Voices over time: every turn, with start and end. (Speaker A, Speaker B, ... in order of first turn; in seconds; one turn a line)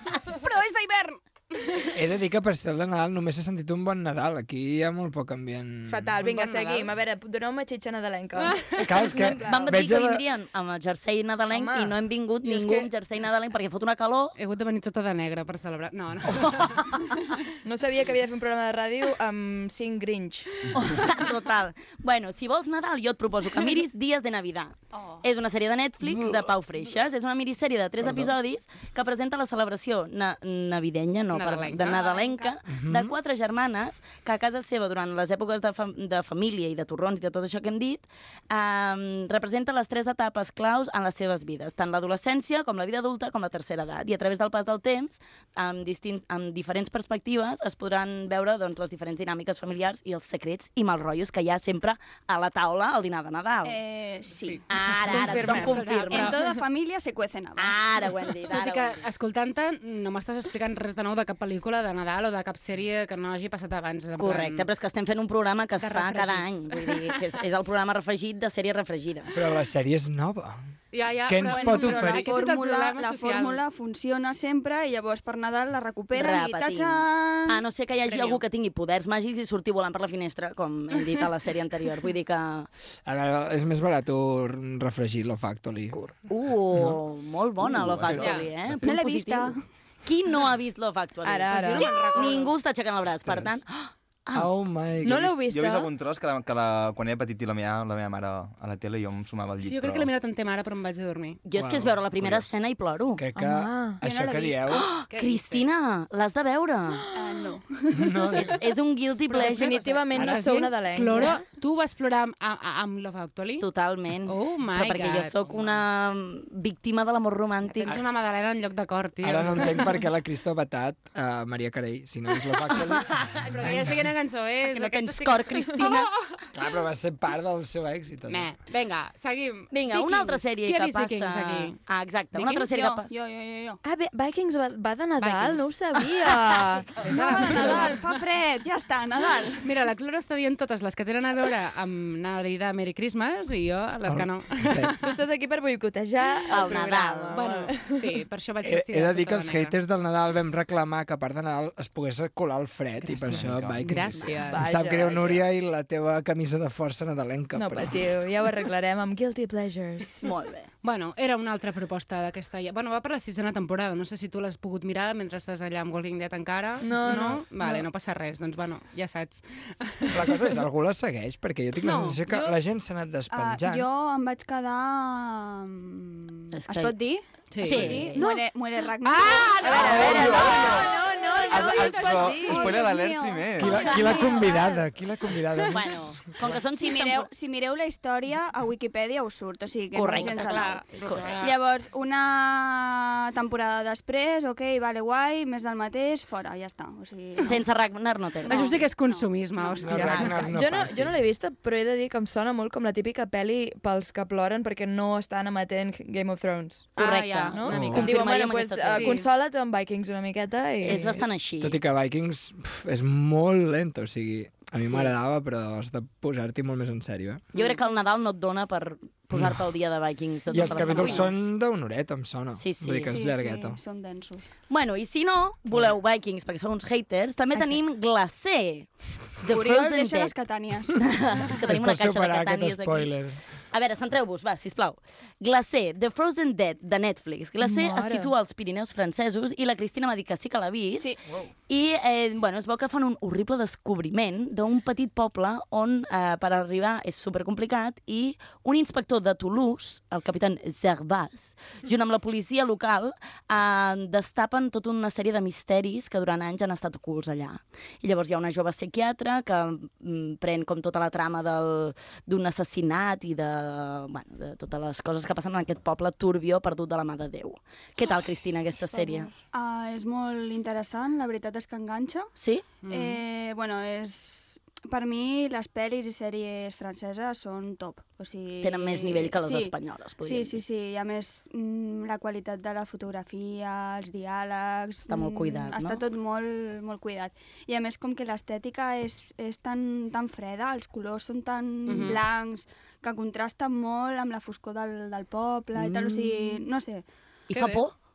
Speaker A: 0.3-1.9
Speaker B: 1.9-6.1
Speaker C: 5.9-9.8
Speaker A: 6.2-6.9
Speaker A: 8.4-8.8
Speaker B: 8.8-10.2
Speaker D: 9.0-14.3
Speaker C: 11.5-12.9
Speaker A: 14.4-17.0
Speaker D: 16.3-16.8
Speaker C: 17.6-20.7
Speaker D: 20.7-53.8
Speaker E: 24.9-25.2
Speaker A: 31.3-32.0
Speaker E: 31.8-32.5
Speaker B: 32.7-33.1
Speaker E: 53.6-54.6
Speaker A: 54.4-56.4
Speaker D: 54.7-56.4
Speaker C: 55.1-56.4
Speaker E: 56.1-58.0
Speaker D: 57.6-59.0
Speaker A: 58.5-64.7
Speaker D: 64.2-69.4
Speaker A: 65.8-67.3
Speaker B: 69.3-70.6
Speaker A: 70.9-73.6
Speaker B: 71.3-72.3
Speaker E: 71.5-77.6
Speaker D: 76.2-82.7
Speaker A: 78.1-78.4
Speaker B: 83.1-86.0
Speaker D: 85.9-94.5
Speaker B: 86.7-87.0
Speaker B: 87.7-88.5
Speaker F: 88.0-88.3
Speaker A: 88.2-88.5
Speaker E: 88.3-89.6
Speaker C: 91.2-91.9
Speaker A: 91.5-92.5
Speaker B: 93.1-93.6
Speaker B: 94.3-95.3
Speaker C: 95.0-95.9
Speaker F: 95.2-100.1
Speaker A: 99.6-101.4
Speaker D: 101.5-103.2
Speaker B: 101.5-102.5
Speaker B: 103.2-104.9
Speaker C: 103.4-104.0
Speaker E: 104.0-104.9
Speaker D: 104.7-107.0
Speaker A: 105.1-105.7
Speaker E: 107.2-108.5
Speaker B: 108.0-108.5
Speaker D: 108.3-110.0
Speaker C: 109.3-111.4
Speaker A: 109.4-113.7
Speaker D: 113.6-118.0
Speaker A: 114.3-115.7
Speaker A: 117.7-120.0
Speaker B: 119.2-124.0
Speaker A: 123.3-126.2
Speaker D: 124.6-126.1
Speaker B: 126.5-128.5
Speaker A: 128.3-131.8
Speaker D: 129.7-133.1
Speaker A: 132.4-132.7
Speaker E: 132.7-133.8
Speaker C: 133.8-137.9
Speaker A: 135.2-135.8
Speaker A: 137.0-138.0
Speaker E: 137.0-139.7
Speaker A: 139.6-145.0
Speaker B: 144.1-144.9
Speaker C: 145.0-148.2
Speaker D: 146.5-147.4
Speaker A: 147.3-149.8
Speaker B: 148.6-158.0
Speaker A: 153.2-154.7
Speaker F: 153.3-154.1
Speaker C: 154.4-155.5
Speaker C: 157.5-160.3
Speaker D: 160.2-160.7
Speaker A: 160.8-170.5
Speaker C: 166.8-167.9
Speaker B: 170.1-173.9
Speaker A: 171.8-172.5
Speaker E: 173.3-184.8
Speaker D: 176.5-177.0
Speaker A: 177.5-178.2
Speaker D: 177.6-178.2
Speaker C: 178.2-178.4
Speaker A: 179.0-180.9
Speaker C: 179.6-183.0
Speaker F: 180.0-180.8
Speaker F: 181.5-183.9
Speaker B: 183.6-186.1
Speaker D: 185.7-187.3
Speaker E: 186.4-197.6
Speaker D: 189.9-191.4
Speaker A: 190.1-191.6
Speaker D: 197.4-198.8
Speaker E: 198.4-200.4
Speaker A: 198.5-200.5
Speaker B: 199.8-201.2
Speaker C: 200.4-211.2
Speaker D: 207.0-209.2
Speaker A: 207.0-208.3
Speaker B: 207.7-208.0
Speaker A: 208.9-209.3
Speaker D: 210.8-211.8
Speaker B: 211.6-217.4
Speaker D: 214.8-215.1
Speaker D: 217.5-221.3
Speaker B: 219.3-219.6
Speaker B: 220.5-223.8
Speaker A: 220.6-221.3
Speaker D: 222.6-223.2
Speaker E: 223.1-224.5
Speaker D: 224.7-230.3
Speaker E: 229.5-231.5
Speaker D: 230.9-233.1
Speaker B: 231.6-233.4
Speaker D: 233.7-241.1
Speaker C: 237.6-238.3
Speaker D: 241.7-269.3
Speaker E: 268.9-272.3
Speaker D: 272.4-272.6
Speaker A: 272.8-273.2
Speaker E: 272.9-297.1
Speaker D: 278.6-280.6
Speaker D: 285.1-286.0
Speaker A: 291.9-292.2
Speaker D: 295.8-296.6
Speaker D: 297.5-297.9
Speaker A: 297.5-297.8